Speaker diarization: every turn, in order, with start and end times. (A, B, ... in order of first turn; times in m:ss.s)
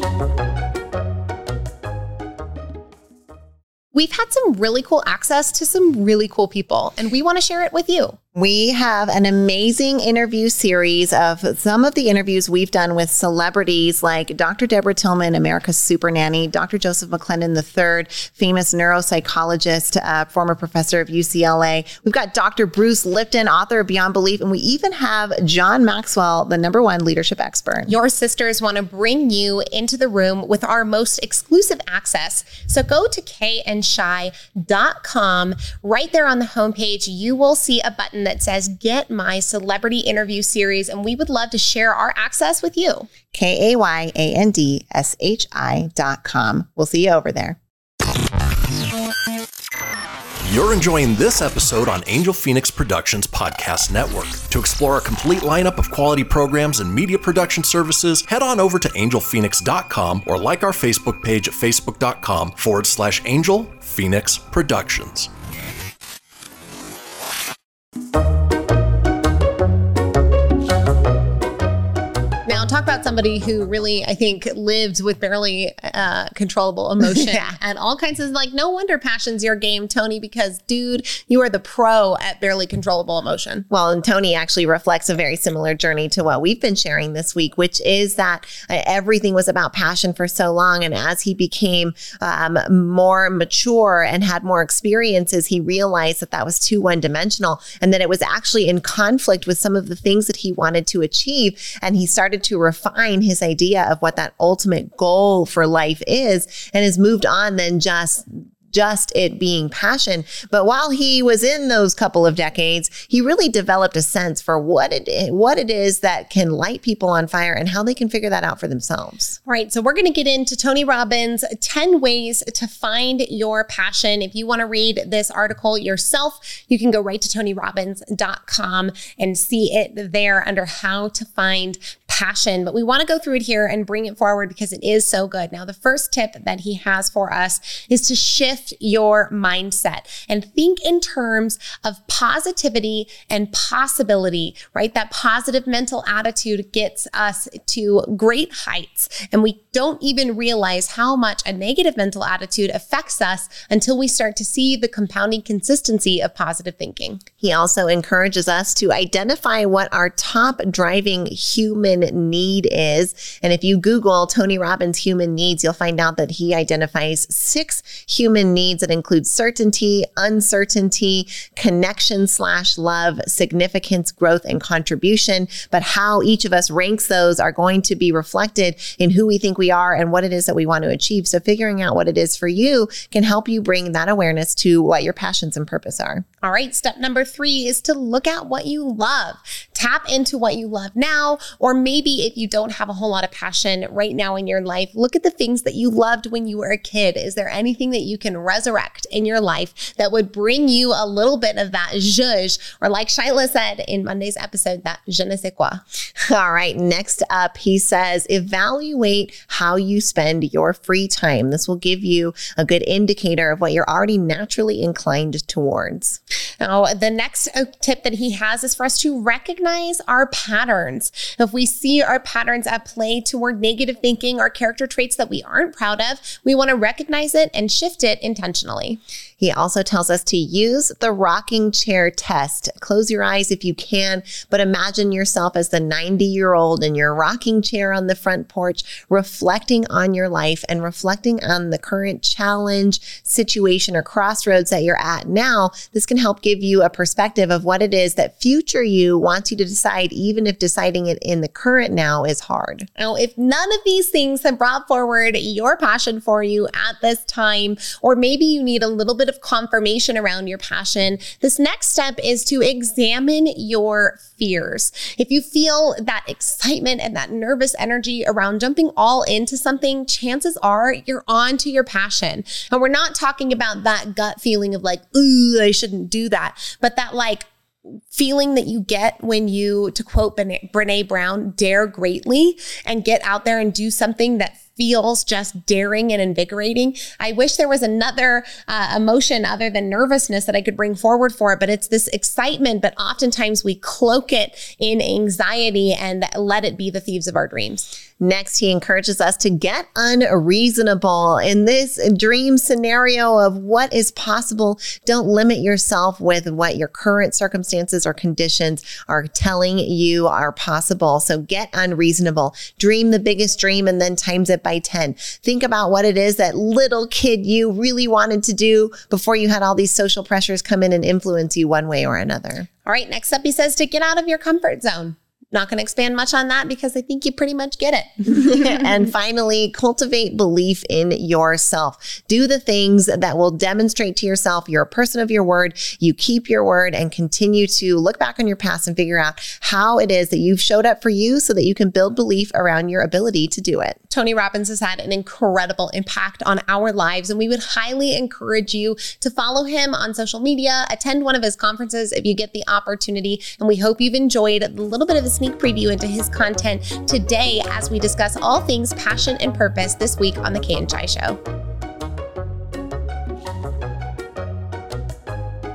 0:03.9-0:08.2 A
0:08.4-0:27.9 B
0:27.9-0:43.1 A
0:43.3-0:47.6 B
0:50.5-1:05.3 C
1:12.4-1:23.6 A
1:17.0-1:17.5 B
1:23.7-1:59.4 B
1:59.4-2:37.2 A
2:37.4-3:06.2 B
3:06.4-3:25.8 A
3:26.2-3:36.2 B
3:36.6-3:49.0 A
3:49.4-4:12.9 B
4:13.0-4:58.0 A
4:58.2-5:22.7 B
5:22.8-5:28.5 A
5:28.3-5:44.0 B
5:44.1-6:01.4 A